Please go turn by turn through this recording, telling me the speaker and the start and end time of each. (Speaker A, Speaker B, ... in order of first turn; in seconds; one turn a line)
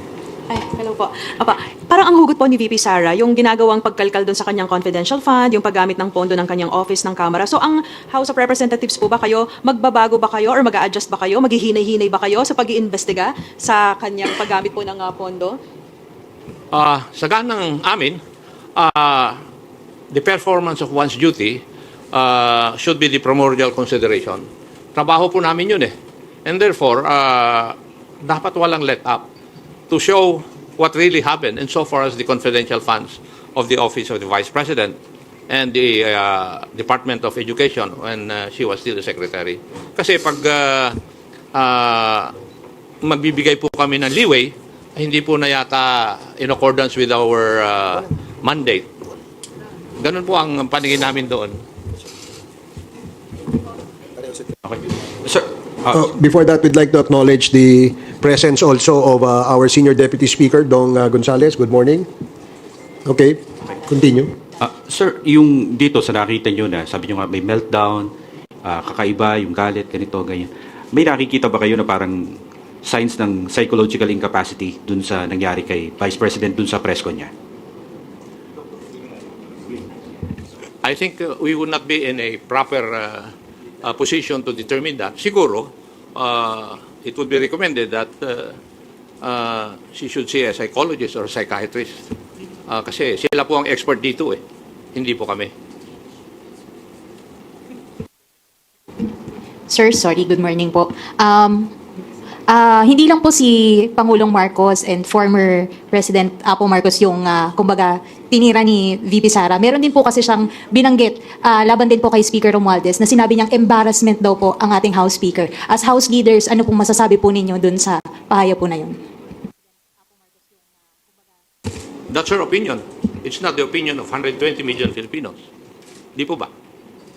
Speaker A: 0.5-15.6
Speaker B: 16.7-18.2
Speaker B: 18.8-19.4
Speaker B: 20.1-21.6
Speaker B: 22.1-25.9
Speaker B: 26.4-29.3
Speaker B: 29.9-35.0
Speaker B: 35.5-41.0
Speaker B: 41.5-42.3
Speaker B: 43.0-48.9
Speaker B: 50.0-51.5
Speaker C: 55.9-62.1
Speaker C: 63.0-64.3
Speaker D: 64.9-68.1
Speaker D: 68.6-72.3
Speaker D: 72.8-77.3
Speaker B: 80.8-83.3
Speaker B: 83.8-88.5
Speaker B: 89.2-92.0
Speaker B: 92.7-94.4
Speaker B: 94.9-95.5
Speaker E: 99.7-101.7
Speaker E: 102.5-119.0
Speaker B: 122.1-125.4
Speaker B: 126.2-126.5